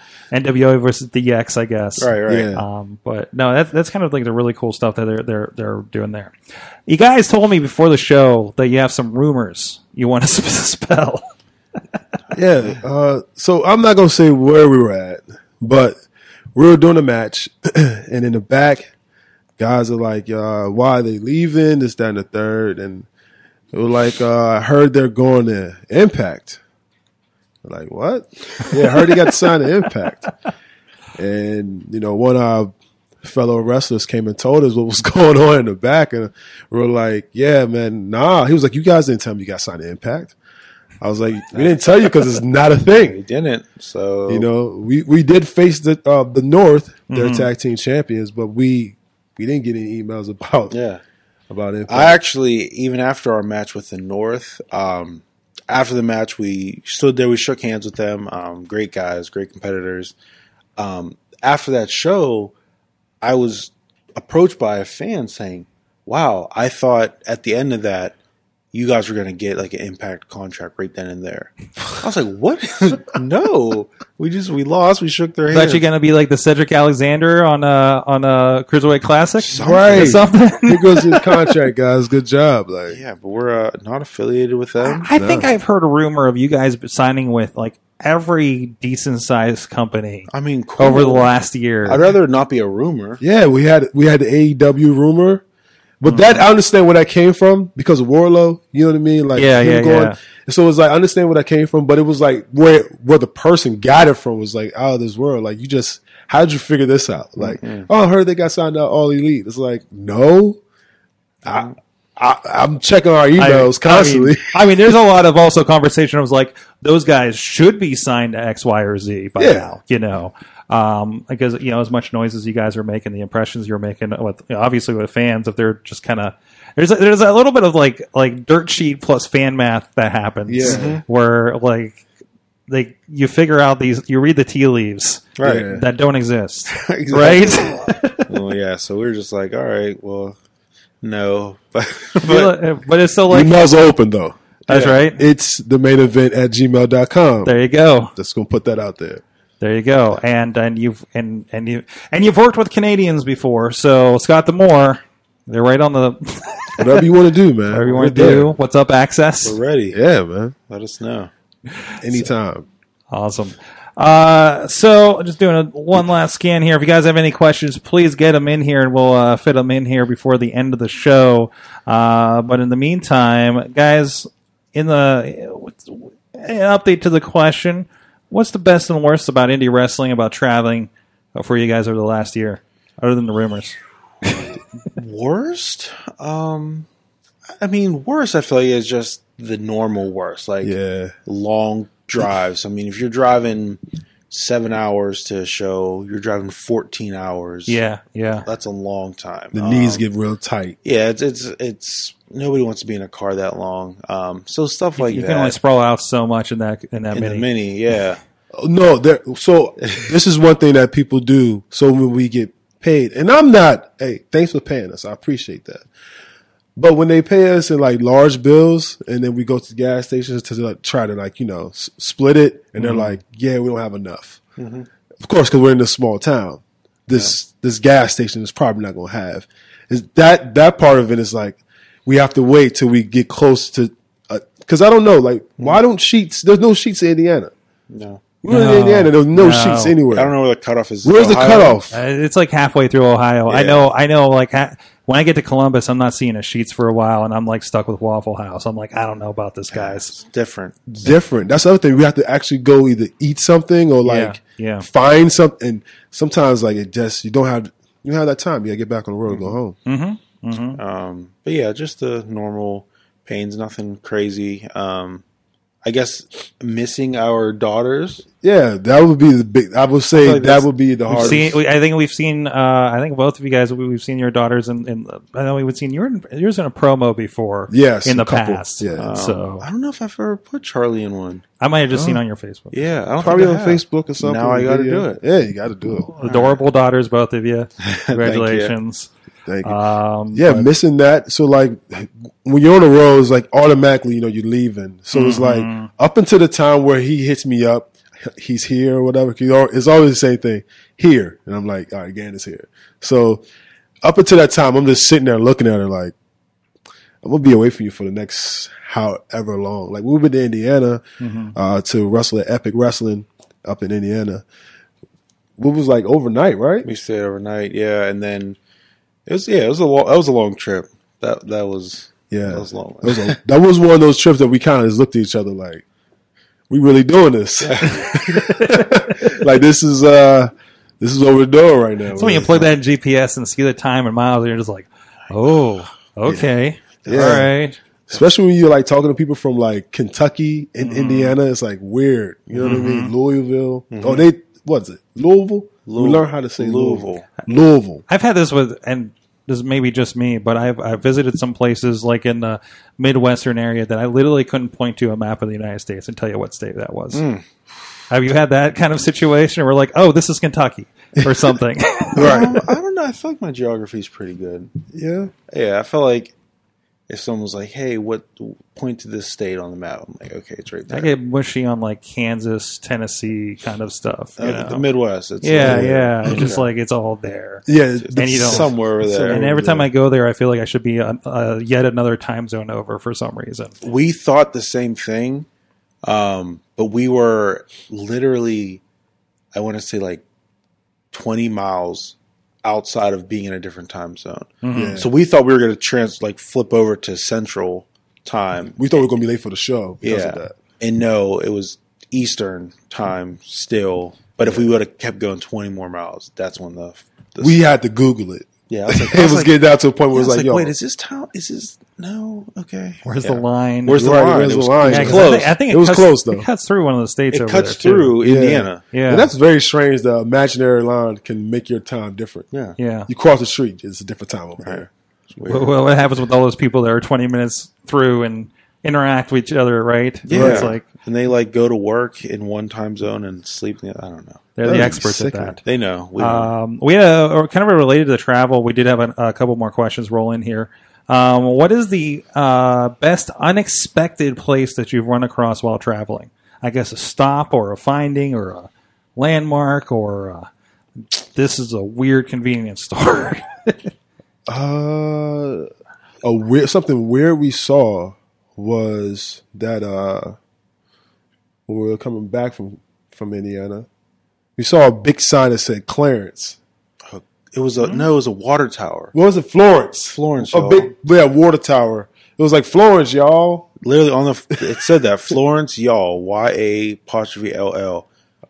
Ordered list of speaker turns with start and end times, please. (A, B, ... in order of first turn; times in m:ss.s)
0:00.3-0:06.3 A
0:02.0-0:02.6 B
0:02.3-0:02.6 C
0:06.9-0:11.2 A
0:12.3-0:16.0 C
0:16.5-0:18.9 C
0:19.6-0:23.1 C
0:23.7-0:26.6 C
0:27.6-0:30.3 C
0:31.2-0:40.4 C
0:41.0-0:43.2 C
0:41.5-0:42.1 B
0:43.0-0:44.5 B
0:44.3-0:50.7 C
0:47.1-0:47.5 A
0:50.7-0:51.0 B
0:51.5-0:52.2 C
0:51.9-1:00.1 B
1:00.8-1:02.5 B
1:03.2-1:08.2 B
1:08.7-1:15.8 B
1:15.5-1:21.5 A
1:19.4-1:20.3 B
1:19.5-1:23.0 C
1:22.9-1:25.1 B
1:24.8-1:32.0 A
1:25.1-1:25.5 C
1:30.3-1:31.3 B
1:31.8-1:33.2 B
1:33.2-1:35.4 C
1:36.0-1:50.6 C
1:36.0-1:36.4 A
1:39.4-1:40.2 A
1:47.4-1:47.9 B
1:51.4-1:54.6 C
1:51.5-1:51.7 B
1:53.4-2:12.0 A
1:59.4-1:59.7 C
2:10.5-2:11.0 C
2:10.6-2:11.0 B
2:12.7-2:18.3 A
2:15.4-2:15.7 B
2:15.4-2:15.8 C
2:16.7-2:20.4 B
2:21.0-2:22.5 B
2:22.2-2:23.7 A
2:23.3-2:27.5 C
2:24.7-2:25.2 A
2:27.4-2:28.1 A
2:28.2-2:29.2 C
2:29.6-2:37.0 A
2:36.8-2:38.5 C
2:37.7-2:39.6 A
2:39.4-2:40.0 B
2:39.9-2:40.5 C
2:40.7-2:41.3 B
2:42.0-2:42.7 C
2:43.1-3:04.6 A
3:04.9-3:06.9 B
3:07.6-3:10.7 B
3:10.6-3:11.1 C
3:11.2-3:17.8 B
3:17.7-3:18.4 A
3:18.4-3:20.0 B
3:19.5-3:20.8 C
3:20.8-3:25.6 B
3:25.0-3:27.5 A
3:27.1-3:28.2 B
3:28.5-3:35.8 C
3:36.8-3:44.4 C
3:42.8-3:43.1 A
3:44.6-3:44.9 B
3:45.2-3:57.5 C
3:57.9-3:58.2 B
3:58.4-4:00.3 C
3:58.5-4:00.0 A
4:00.1-4:01.8 B
4:01.0-4:01.9 C
4:01.9-4:10.1 A
4:03.5-4:03.9 B
4:09.7-4:10.8 B
4:10.9-4:19.8 C
4:14.0-4:14.8 A
4:19.3-4:19.6 B
4:19.8-4:20.8 A
4:20.8-4:25.2 B
4:25.8-4:28.2 B
4:28.4-4:31.6 C
4:30.1-4:31.4 B
4:31.1-4:39.6 A
4:37.7-4:39.1 C
4:39.0-4:41.4 B
4:41.6-4:42.8 A
4:41.9-4:42.2 C
4:42.7-4:45.2 B
4:43.2-4:46.1 C
4:46.1-4:49.1 A
4:46.2-4:46.6 B
4:47.8-4:48.7 B
4:49.4-4:49.8 C
4:49.6-4:50.7 A
4:50.3-5:03.4 C
4:55.1-4:55.9 A
5:04.0-5:06.1 C
5:07.2-5:11.0 C
5:11.2-5:11.5 A
5:11.5-5:14.4 C
5:15.6-5:16.9 C
5:16.8-5:18.6 B
5:19.3-5:23.4 B
5:22.3-5:25.8 C
5:26.7-5:32.7 C
5:27.6-5:28.4 B
5:28.4-5:28.6 A
5:32.1-5:37.8 A
5:37.0-5:37.5 C
5:38.1-5:48.0 C
5:40.8-5:41.3 A
5:42.6-5:43.1 A
5:43.9-5:44.2 B
5:45.8-5:47.3 B
5:48.1-5:57.2 A
5:57.1-5:57.4 B
5:58.1-6:02.4 A
6:02.2-6:02.7 C
6:02.2-6:04.7 B
6:04.9-6:05.3 C
6:05.5-6:06.3 B
6:07.1-6:11.1 B
6:10.9-6:14.8 A
6:14.4-6:16.7 B
6:15.4-6:23.7 A
6:15.6-6:16.5 C
6:17.6-6:19.9 C
6:18.0-6:19.5 B
6:23.8-6:25.4 B
6:26.0-6:28.8 B
6:29.5-6:30.2 B
6:31.1-6:38.9 B
6:34.6-6:35.0 A
6:34.7-6:35.1 C
6:38.7-6:40.5 C
6:40.0-6:47.6 B
6:44.4-6:44.7 C
6:47.4-6:50.7 C
6:48.7-6:49.6 B
6:50.1-6:55.6 B
6:53.0-6:54.0 A
6:53.9-6:56.5 C
6:54.8-6:58.2 A
6:57.3-6:58.8 B
6:58.2-7:02.4 C
6:58.9-6:59.3 A
7:02.5-7:02.8 B
7:02.8-7:03.1 A
7:03.1-7:04.9 C
7:04.6-7:05.8 B
7:05.5-7:10.8 A
7:10.2-7:14.9 B
7:10.3-7:10.7 C
7:14.6-7:15.6 A
7:14.6-7:15.6 C
7:15.6-7:16.5 B
7:16.2-7:30.5 A
7:31.1-7:33.9 A
7:34.5-7:35.7 C
7:36.2-7:40.4 C
7:41.7-7:43.9 C
7:44.6-7:46.6 C
7:47.1-7:49.1 B
7:47.8-7:48.1 A
7:49.1-7:53.7 C
7:50.1-7:50.9 B
7:53.8-7:58.0 B